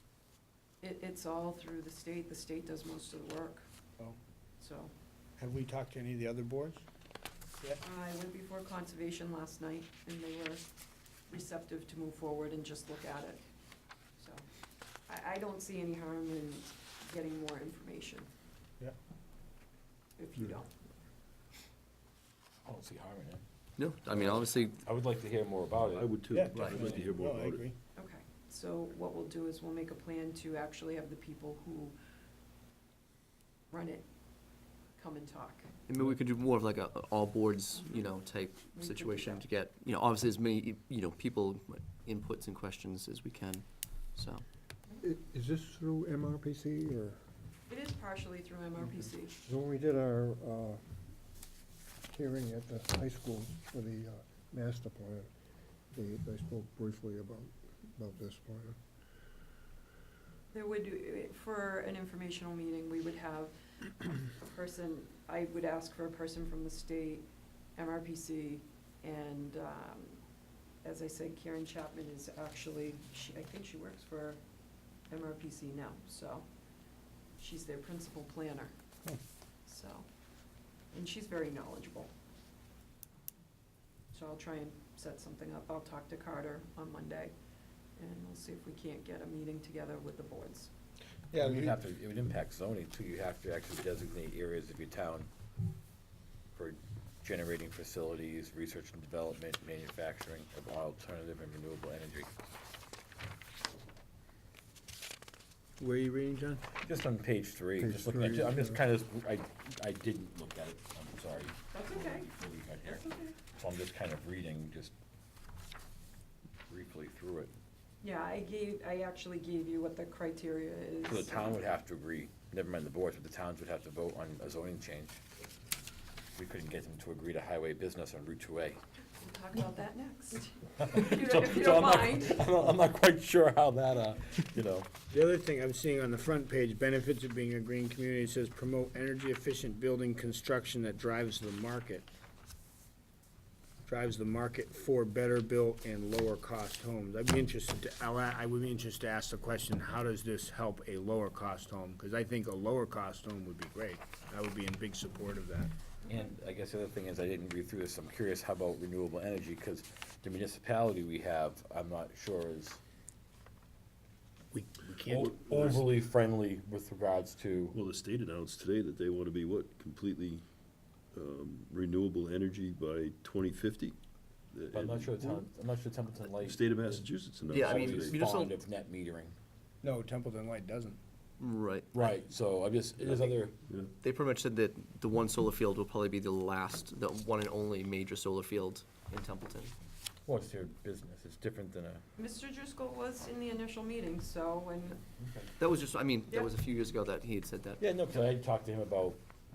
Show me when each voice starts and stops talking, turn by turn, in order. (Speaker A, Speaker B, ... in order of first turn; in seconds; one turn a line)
Speaker A: 0.8-3.6
Speaker A: 4.6-4.9
Speaker B: 5.4-6.8
Speaker A: 7.8-10.7
Speaker A: 11.3-13.4
Speaker A: 14.2-14.4
Speaker A: 15.1-18.3
Speaker A: 20.2-20.7
Speaker C: 22.6-23.4
Speaker D: 23.8-24.8
Speaker C: 24.0-26.1
Speaker E: 25.8-27.7
Speaker B: 26.3-27.8
Speaker C: 26.6-26.9
Speaker A: 27.9-31.9
Speaker A: 33.7-34.0
Speaker A: 35.0-35.7
Speaker D: 35.9-44.5
Speaker A: 38.7-39.4
Speaker F: 45.0-47.2
Speaker A: 47.7-49.3
Speaker F: 49.4-50.8
Speaker F: 52.1-55.3
Speaker F: 55.9-58.8
Speaker A: 60.5-63.5
Speaker A: 64.2-70.2
Speaker A: 70.8-74.4
Speaker A: 75.1-76.5
Speaker A: 77.4-78.7
Speaker A: 79.7-80.0
Speaker A: 80.9-82.1
Speaker A: 84.1-87.3
Speaker A: 88.0-90.7
Speaker B: 91.3-91.7
Speaker C: 91.4-95.3
Speaker C: 96.6-102.3
Speaker B: 105.8-106.6
Speaker C: 106.8-114.9
Speaker F: 107.8-108.8
Speaker A: 111.7-112.3
Speaker A: 112.8-113.3
Speaker C: 116.7-117.5
Speaker A: 118.0-121.6
Speaker C: 121.1-125.2
Speaker C: 126.4-128.8
Speaker A: 129.2-132.4
Speaker C: 130.8-134.9
Speaker B: 135.1-142.1
Speaker B: 143.9-155.7
Speaker C: 156.1-162.8
Speaker B: 164.5-165.8
Speaker C: 165.1-167.8
Speaker E: 167.7-170.4
Speaker E: 171.1-174.0
Speaker E: 174.5-175.5
Speaker C: 174.7-177.0
Speaker E: 176.3-178.3
Speaker D: 177.5-178.6
Speaker C: 177.7-179.4
Speaker B: 179.8-181.0
Speaker D: 181.4-182.2
Speaker C: 181.9-183.6
Speaker D: 184.0-189.7
Speaker C: 190.3-192.0
Speaker A: 192.2-195.0
Speaker C: 195.2-195.5
Speaker D: 195.6-197.8
Speaker C: 197.8-199.2